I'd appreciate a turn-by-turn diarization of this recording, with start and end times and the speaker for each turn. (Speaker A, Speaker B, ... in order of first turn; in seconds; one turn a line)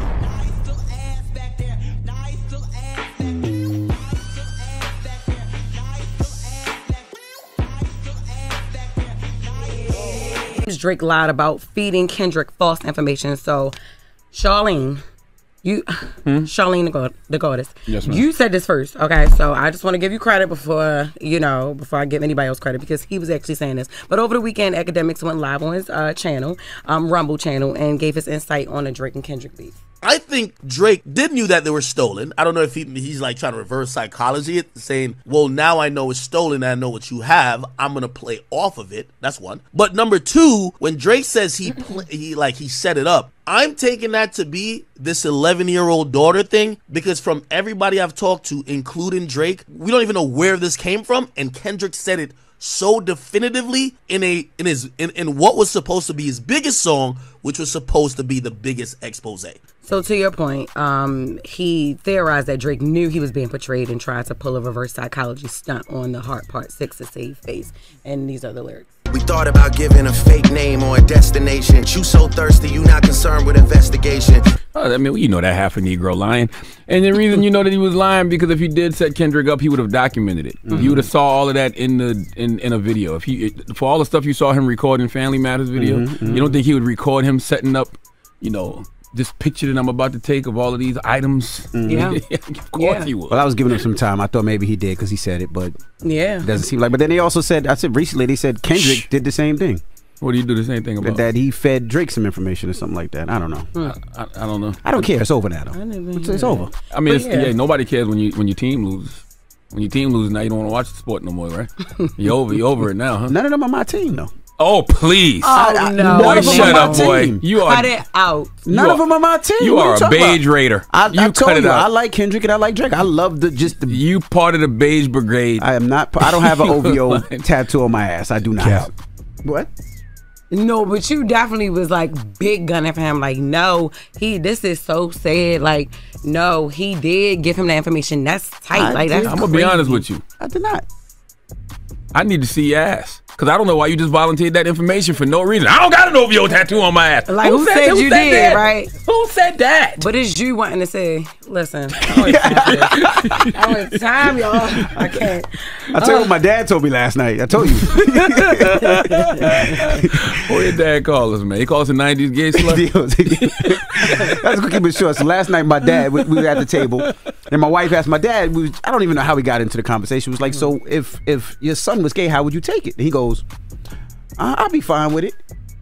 Speaker A: 1.0-3.3
Speaker A: 4.8-6.5
Speaker A: 8.9-13.7
Speaker A: 14.3-15.0
Speaker A: 15.6-29.8
Speaker B: 17.9-18.2
Speaker C: 30.0-59.6
Speaker A: 59.8-68.9
Speaker D: 69.1-74.5
Speaker B: 74.7-93.4
Speaker E: 80.7-81.1
Speaker A: 80.7-81.0
Speaker E: 85.8-86.5
Speaker E: 91.7-92.2
Speaker A: 91.8-92.2
Speaker A: 92.7-93.1
Speaker E: 93.3-95.8
Speaker A: 96.0-96.6
Speaker E: 96.4-99.8
Speaker B: 98.7-99.1
Speaker B: 100.2-101.2
Speaker E: 101.0-103.7
Speaker B: 103.8-105.1
Speaker E: 104.8-106.7
Speaker A: 105.7-107.5
Speaker B: 106.9-113.3
Speaker E: 113.3-114.3
Speaker B: 114.6-117.9
Speaker A: 115.4-118.5
Speaker E: 115.5-117.4
Speaker E: 118.6-124.0
Speaker B: 118.7-119.0
Speaker B: 119.6-121.9
Speaker B: 123.8-125.7
Speaker E: 125.6-128.9
Speaker B: 126.2-127.4
Speaker B: 128.6-128.9
Speaker E: 129.4-129.7
Speaker A: 130.5-140.0
Speaker E: 138.7-140.8
Speaker B: 139.2-140.2
Speaker B: 142.1-150.0
Speaker A: 147.3-148.9
Speaker A: 150.0-156.3
Speaker E: 152.1-153.4
Speaker B: 152.1-153.7
Speaker E: 155.9-160.6
Speaker B: 157.9-164.8
Speaker A: 159.0-159.8
Speaker E: 162.6-173.4
Speaker B: 165.8-167.1
Speaker E: 174.4-175.4